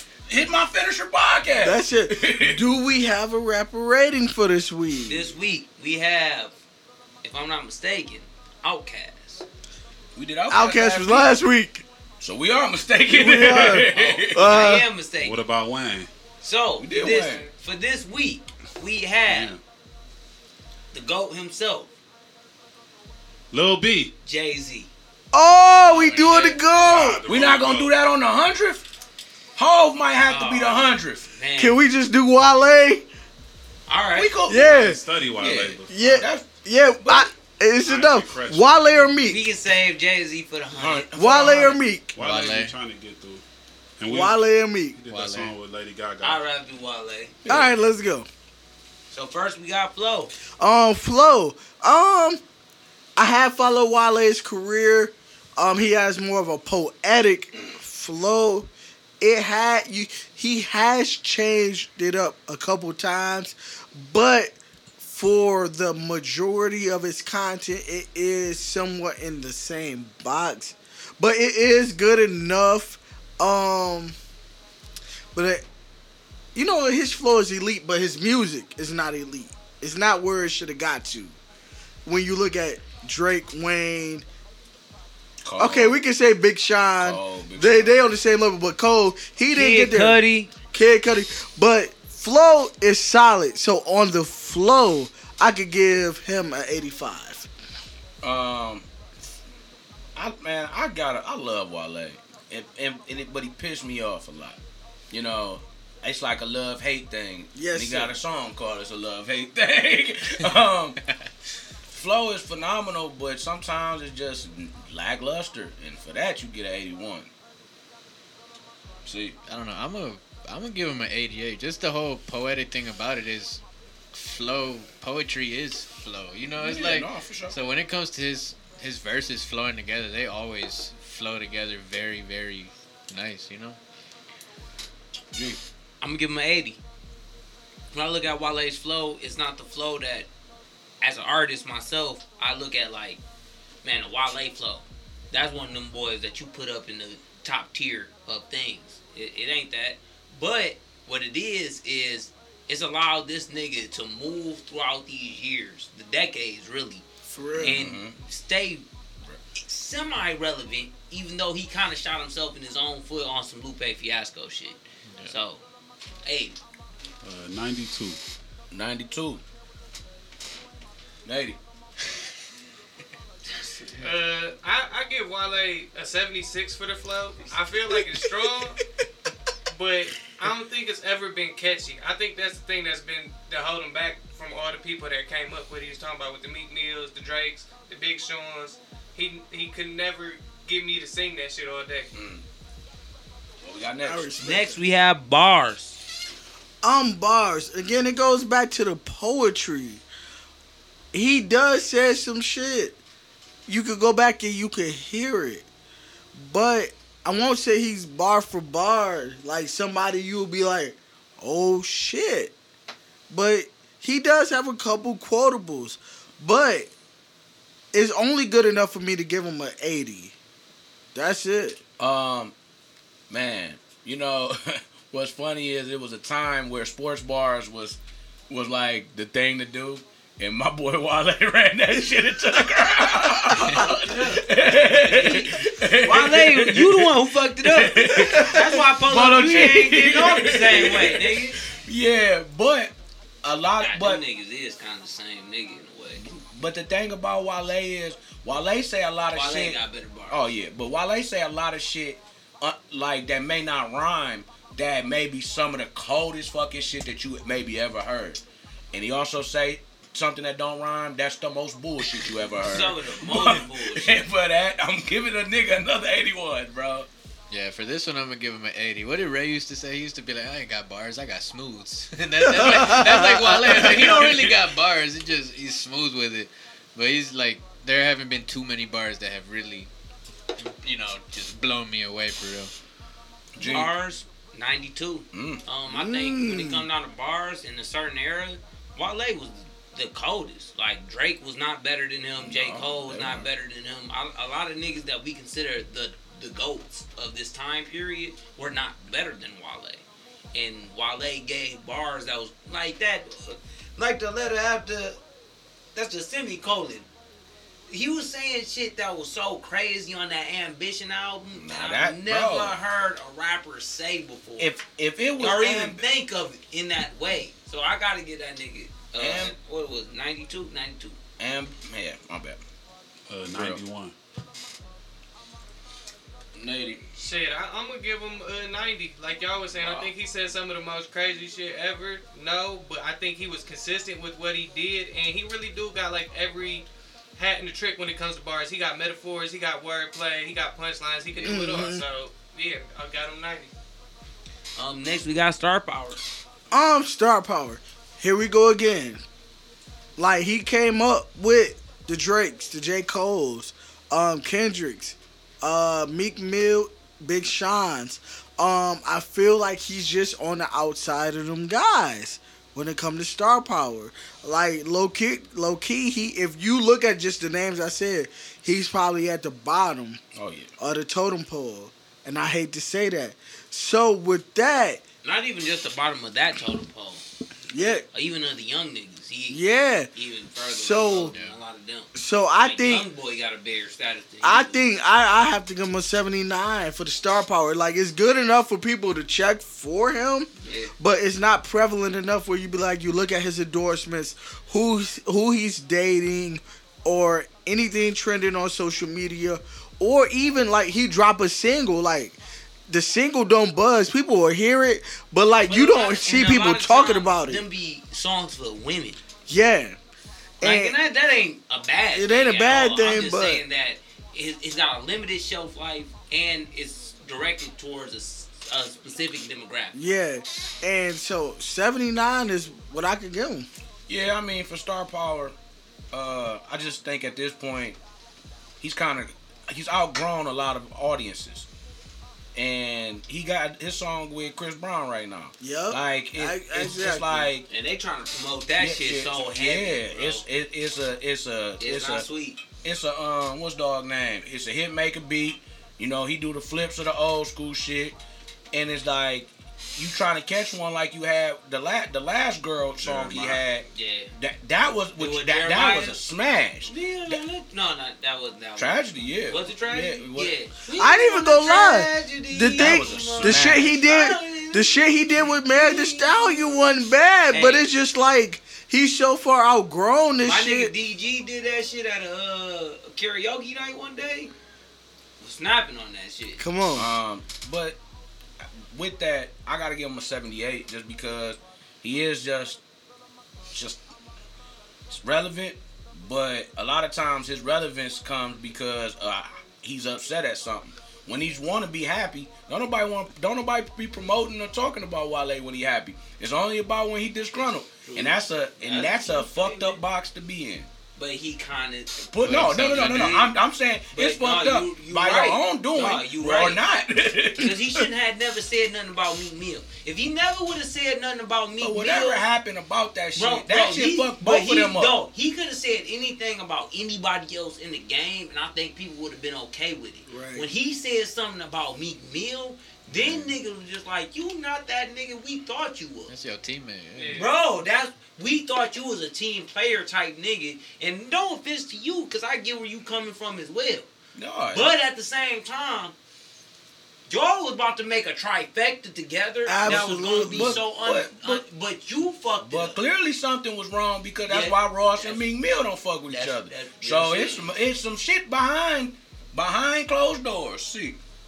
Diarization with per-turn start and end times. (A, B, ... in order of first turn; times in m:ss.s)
0:00.3-0:02.6 A
0:01.6-0:05.3 B
0:05.1-0:06.5 C
0:07.2-0:09.4 C
0:10.2-0:11.3 A
0:10.5-0:11.8 B
0:12.2-0:14.6 A
0:13.1-0:14.8 B
0:13.9-0:15.4 C
0:15.2-0:16.1 D
0:16.4-0:19.5 C
0:16.8-0:17.4 A
0:19.3-0:19.6 D
0:20.9-0:21.9 C
0:23.5-0:24.1 D
0:24.2-0:24.9 C
0:25.3-0:27.2 B
0:25.9-0:26.6 C
0:26.8-0:27.9 D
0:27.2-0:28.8 A
0:29.6-0:31.2 A
0:30.3-0:31.8 C
0:31.6-0:33.0 B
0:33.9-0:34.3 C
0:34.1-0:36.4 A
0:34.5-0:35.0 B
0:34.5-0:36.0 D
0:35.9-0:39.4 B
0:37.0-0:37.3 A
0:37.8-0:39.2 D
0:39.2-0:41.7 C
0:40.7-0:41.8 A
0:41.1-0:42.2 B
0:42.1-0:43.4 D
0:42.2-0:42.8 E
0:44.0-0:44.4 D
0:44.1-0:45.0 B
0:45.0-0:46.4 D
0:45.1-0:45.5 E
0:46.2-0:47.4 C
0:47.4-0:47.7 A
0:47.5-0:48.3 B
0:49.1-0:50.3 C
0:50.6-0:52.4 B
0:53.2-0:58.7 B
0:59.2-1:14.1 B
1:15.3-1:15.6 B
1:16.5-1:21.3 B
1:22.0-1:24.2 B
1:25.4-1:26.0 A
1:25.6-1:30.2 B
1:27.0-1:27.9 A
1:29.5-1:30.5 C
1:30.7-1:37.5 B
1:38.2-1:38.9 A
1:40.1-1:44.6 A
1:45.1-1:51.0 A
1:47.5-1:48.1 B
1:51.9-1:57.3 A
1:59.0-1:59.4 A
1:59.4-2:03.6 E
2:04.1-2:13.8 E
2:06.6-2:07.6 A
2:15.3-2:15.6 A
2:16.0-2:16.8 C
2:17.9-2:20.3 C
2:21.0-2:23.2 C
2:23.8-2:37.0 C
2:37.2-2:37.8 B
2:37.6-2:38.8 C
2:37.6-2:38.2 A
2:39.6-2:45.6 C
2:46.2-2:46.6 C
2:47.2-2:48.2 D
2:48.7-2:49.4 A
2:51.2-2:51.6 A
2:53.5-2:54.1 C
2:54.0-2:58.8 F
2:59.7-3:12.1 F
3:12.1-3:12.4 A
3:13.6-3:14.5 A
3:14.0-3:14.8 B
3:14.4-3:16.0 C
3:16.8-3:20.0 B
3:21.1-3:23.0 B
3:23.7-3:25.6 B
3:26.3-3:32.5 B
3:33.3-3:36.9 B
3:37.9-3:40.3 B
3:41.1-3:41.8 B
3:42.0-3:42.5 A
3:43.3-3:48.0 A
3:48.5-4:04.2 A
3:53.7-4:01.6 C
4:03.8-4:06.2 C
4:06.2-4:18.4 A
4:09.3-4:10.4 C
4:18.9-4:27.1 A
4:22.6-4:24.1 C
4:27.5-4:39.9 E
4:32.5-4:33.3 B
4:32.6-4:34.6 A
4:40.6-4:42.7 E
4:43.5-4:43.9 A
4:43.6-5:00.0 C
4:45.3-4:45.6 A
4:45.9-4:46.8 B
4:52.4-4:53.4 A
5:00.5-5:05.2 C
5:05.9-5:07.1 C
5:07.9-5:14.7 C
5:11.6-5:12.8 A
5:14.6-5:16.0 A
5:15.4-5:21.2 C
5:19.2-5:19.5 A
5:21.4-5:22.6 A
5:23.3-5:24.1 D
5:23.5-5:23.8 A
5:26.5-5:27.0 A
5:27.2-5:43.7 F
5:29.8-5:30.1 A
5:41.3-5:41.6 C
5:41.4-5:42.0 B
5:44.8-5:46.2 C
5:46.7-5:49.2 B
5:50.2-6:10.2 B
6:10.3-6:10.7 A
6:10.8-6:15.0 B
6:15.2-6:17.2 C
6:17.7-6:18.0 B
6:17.8-6:19.6 C
6:19.5-6:20.1 B
6:20.1-6:22.1 C
6:20.7-6:21.3 B
6:21.2-6:21.6 E
6:22.1-6:23.0 B
6:22.6-6:24.8 C
6:24.4-6:47.6 B
6:30.6-6:30.9 C
6:45.7-6:49.2 C
6:49.5-6:50.0 B
6:50.6-6:51.0 B
6:50.6-7:00.0 C
6:52.1-6:53.6 B
6:59.9-7:03.7 B
7:04.1-7:05.5 A
7:06.1-7:08.0 A
7:08.8-7:11.6 A
7:12.5-7:17.6 A
7:15.6-7:17.5 B
7:17.7-7:20.4 C
7:18.8-7:22.2 A
7:21.8-7:22.6 C
7:22.8-7:28.2 A
7:28.7-7:37.4 A
7:33.3-7:34.3 C
7:35.2-7:36.2 C
7:36.9-7:46.8 C
7:38.8-7:40.5 A
7:40.9-7:50.9 B
7:42.8-7:43.9 A
7:47.5-7:47.8 C
7:50.4-7:54.5 C
7:55.4-7:56.6 C
7:56.6-7:57.1 B
7:56.9-7:58.0 A
7:58.9-8:02.8 A
8:03.7-8:04.0 A
8:05.1-8:20.9 A
8:18.0-8:20.0 C
8:21.2-8:23.5 C
8:22.2-8:27.8 A
8:22.4-8:23.5 E
8:24.1-8:26.8 C
8:27.6-8:32.4 C
8:31.8-8:35.1 A
8:33.4-8:46.3 C
8:40.3-8:40.6 B
8:43.1-8:43.5 A
8:46.3-8:47.5 E
8:47.2-8:47.5 F
8:47.3-8:54.1 C
8:54.4-8:54.9 A
8:54.7-8:56.2 C
8:57.3-9:03.0 C
8:59.6-9:00.8 B
8:59.8-9:01.6 A
9:02.6-9:11.2 A
9:04.5-9:05.4 C
9:06.3-9:07.7 C